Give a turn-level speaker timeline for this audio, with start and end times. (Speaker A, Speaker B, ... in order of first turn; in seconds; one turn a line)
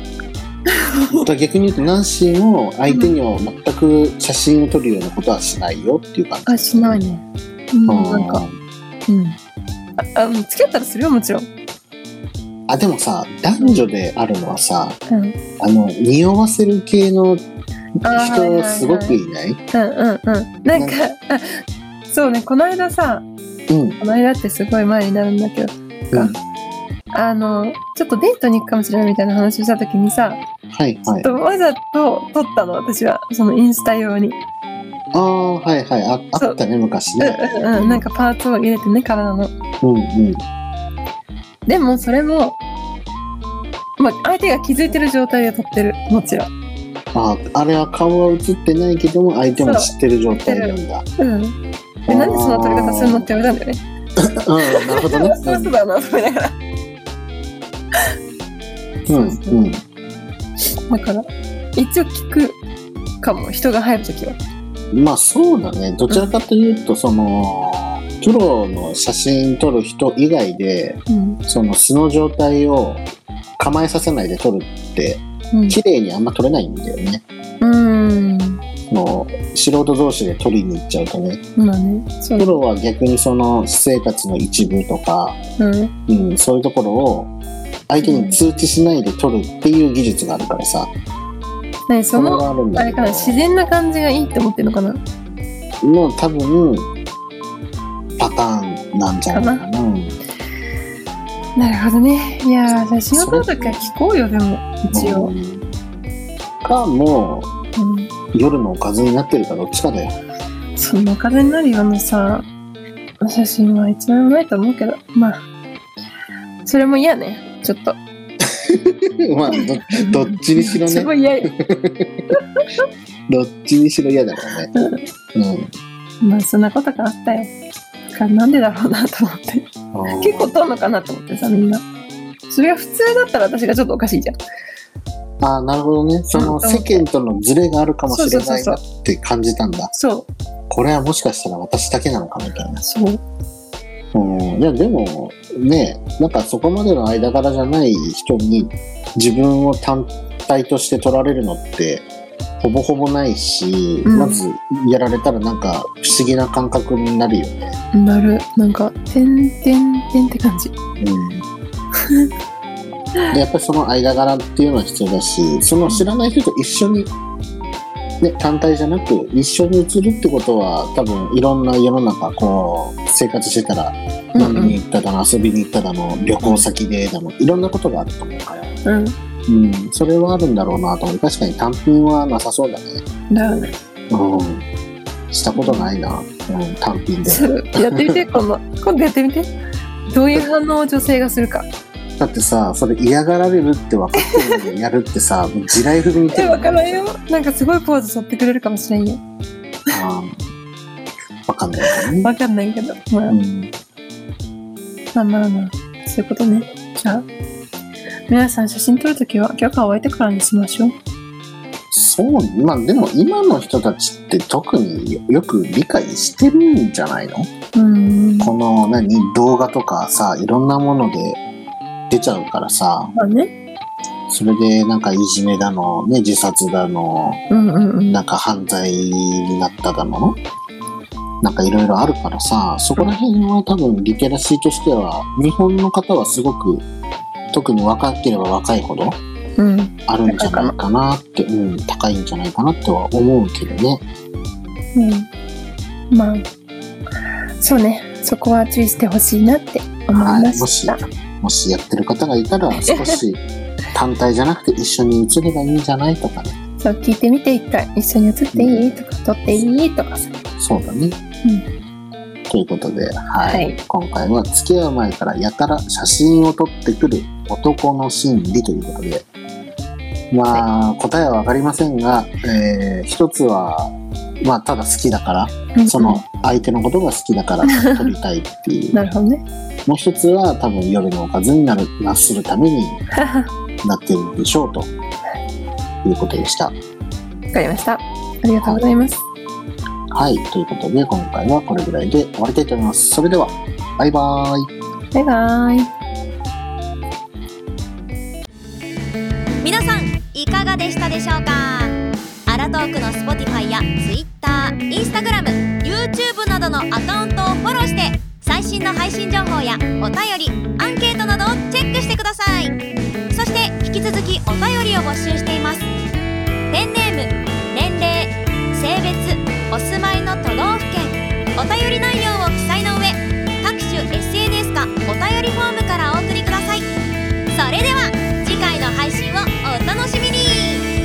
Speaker A: 0.9-1.2
Speaker B: 1.1-7.0
Speaker A: 2.9-3.1
Speaker A: 6.5-8.4
Speaker B: 7.9-8.6
Speaker A: 9.1-9.4
Speaker A: 10.0-11.5
Speaker B: 12.7-15.0
Speaker A: 15.1-15.4
Speaker B: 15.6-17.4
Speaker A: 18.0-19.2
Speaker B: 18.1-19.6
Speaker A: 19.7-23.3
Speaker B: 20.7-21.0
Speaker B: 23.7-24.0
Speaker A: 24.0-26.3
Speaker B: 26.1-26.4
Speaker A: 27.1-30.4
Speaker B: 30.7-31.3
Speaker A: 31.1-34.4
Speaker B: 35.1-38.1
Speaker A: 37.2-39.5
Speaker B: 39.8-40.4
Speaker A: 41.7-42.6
Speaker A: 44.0-46.5
Speaker B: 47.1-51.1
Speaker A: 49.6-53.8
Speaker B: 52.1-53.3
Speaker B: 54.2-55.8
Speaker A: 54.9-56.5
Speaker A: 59.1-59.6
Speaker B: 59.1-59.8
Speaker A: 60.9-61.2
Speaker A: 61.8-62.6
Speaker A: 63.2-64.4
Speaker B: 64.9-73.0
Speaker A: 71.1-71.4
Speaker B: 73.6-77.2
Speaker A: 75.5-75.8
Speaker A: 77.6-78.6
Speaker B: 78.9-81.4
Speaker A: 81.6-82.6
Speaker B: 82.4-85.4
Speaker A: 85.6-85.9
Speaker B: 86.1-87.3
Speaker B: 87.9-90.9
Speaker A: 88.0-88.4
Speaker A: 91.9-95.0
Speaker B: 92.1-93.4
Speaker B: 95.8-96.9
Speaker B: 98.2-100.2
Speaker A: 99.3-99.6
Speaker A: 101.6-105.3
Speaker B: 103.1-103.8
Speaker B: 104.9-105.7
Speaker B: 106.6-107.5
Speaker A: 107.8-108.1
Speaker B: 108.3-110.2
Speaker A: 110.8-112.5
Speaker A: 113.2-115.4
Speaker A: 116.7-118.0
Speaker B: 118.7-122.2
Speaker A: 119.6-121.5
Speaker B: 123.3-124.7
Speaker A: 124.7-125.0
Speaker B: 125.3-125.7
Speaker A: 126.2-127.5
Speaker A: 128.1-131.8
Speaker B: 129.9-130.6
Speaker A: 132.5-134.4
Speaker B: 135.4-139.9
Speaker A: 136.3-137.1
Speaker A: 138.1-138.8
Speaker A: 139.9-140.3
Speaker B: 140.7-142.8
Speaker A: 142.8-143.2
Speaker B: 144.1-152.1
Speaker B: 152.6-157.8
Speaker A: 154.1-154.4
Speaker A: 157.9-160.7
Speaker B: 161.0-161.5
Speaker B: 163.3-167.1
Speaker B: 168.2-178.7
Speaker A: 174.3-174.8
Speaker A: 176.4-176.7
Speaker A: 178.8-179.2
Speaker B: 179.5-183.0
Speaker A: 183.3-183.8
Speaker B: 184.1-184.7
Speaker B: 185.3-188.4
Speaker A: 185.6-185.9
Speaker A: 187.2-189.5
Speaker A: 190.1-191.7
Speaker B: 192.2-197.1
Speaker A: 196.3-199.2
Speaker B: 199.9-200.4
Speaker B: 201.5-202.3
Speaker A: 202.2-203.4
Speaker B: 203.3-203.7
Speaker A: 205.1-207.3
Speaker A: 208.3-210.9
Speaker B: 211.9-217.5
Speaker A: 217.7-218.5
Speaker B: 218.4-221.4
Speaker B: 222.1-223.1
Speaker A: 223.2-223.5
Speaker B: 224.3-227.4
Speaker A: 227.5-228.2
Speaker B: 228.1-230.4
Speaker B: 231.4-236.9
Speaker B: 237.5-239.2
Speaker A: 239.6-240.8
Speaker B: 240.1-244.0
Speaker A: 244.9-245.3
Speaker A: 246.1-246.5
Speaker A: 247.6-251.0
Speaker B: 250.1-253.4
Speaker A: 252.8-253.2
Speaker B: 253.9-256.6
Speaker A: 256.8-260.3
Speaker B: 258.5-258.9
Speaker B: 260.6-261.2
Speaker B: 262.5-269.3
Speaker A: 263.5-263.8
Speaker B: 270.3-279.0
Speaker A: 275.8-276.2
Speaker A: 277.7-278.1
Speaker A: 278.9-279.4
Speaker B: 279.9-283.0
Speaker A: 283.2-283.5
Speaker B: 283.8-284.9
Speaker B: 286.0-286.8
Speaker A: 287.5-289.2
Speaker B: 290.1-294.7
Speaker A: 295.1-295.9
Speaker C: 299.6-301.9
Speaker C: 302.5-312.8
Speaker C: 313.3-315.9
Speaker C: 316.7-326.9
Speaker C: 327.5-330.9